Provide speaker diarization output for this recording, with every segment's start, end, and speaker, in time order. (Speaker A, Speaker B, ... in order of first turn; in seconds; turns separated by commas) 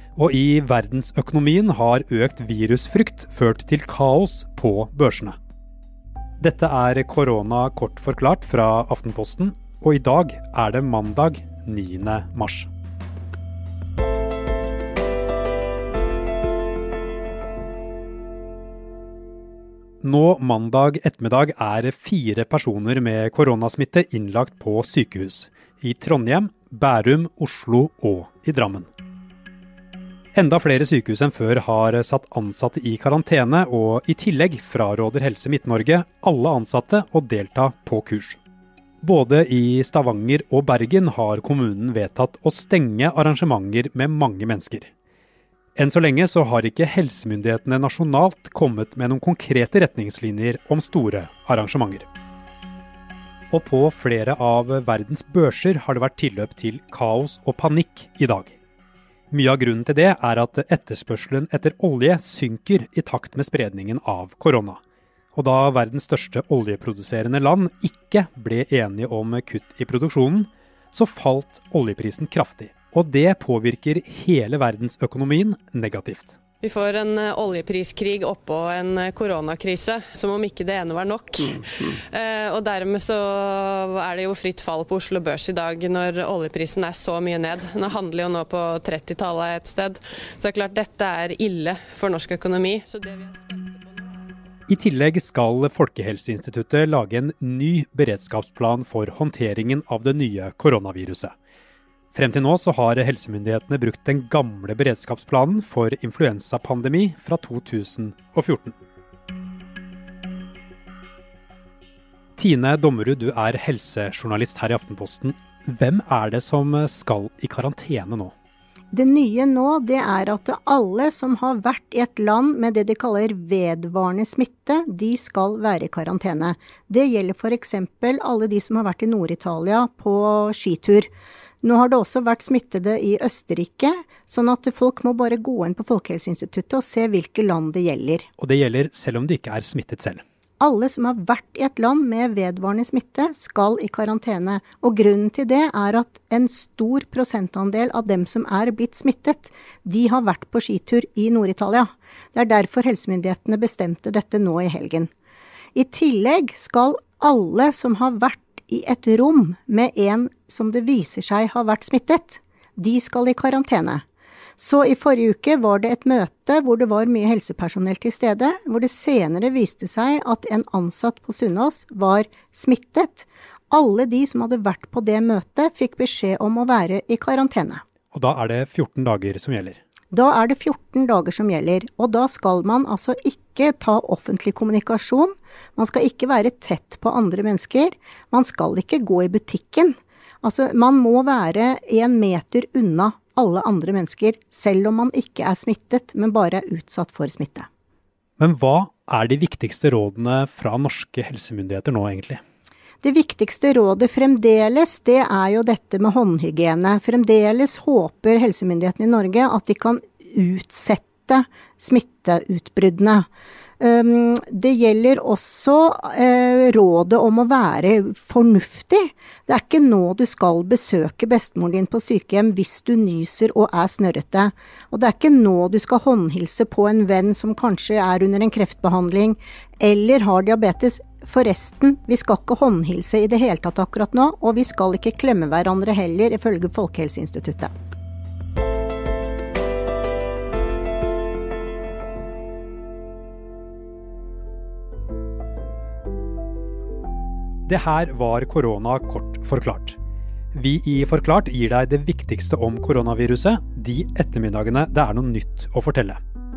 Speaker A: 0.1-5.4, Speaker A: 6.4-12.7, Speaker A: 20.0-28.9, Speaker A: 30.3-38.4, Speaker A: 39.0-44.9, Speaker A: 45.8-52.0, Speaker A: 53.5-58.6, Speaker A: 59.3-64.8, Speaker A: 65.3-76.3, Speaker B: 76.6-94.3, Speaker A: 94.7-101.3, Speaker A: 102.1-108.8, Speaker A: 112.4-118.3, Speaker C: 118.9-131.1, Speaker C: 131.6-138.2, Speaker A: 138.4-140.2, Speaker C: 140.6-155.1, Speaker C: 155.7-164.0, Speaker C: 164.6-177.8, Speaker A: 178.1-179.8, Speaker C: 180.1-197.7, Speaker A: 198.4-202.4, Speaker C: 203.0-213.2, Speaker C: 213.8-237.7, Speaker A: 247.7-250.0, Speaker A: 250.5-256.2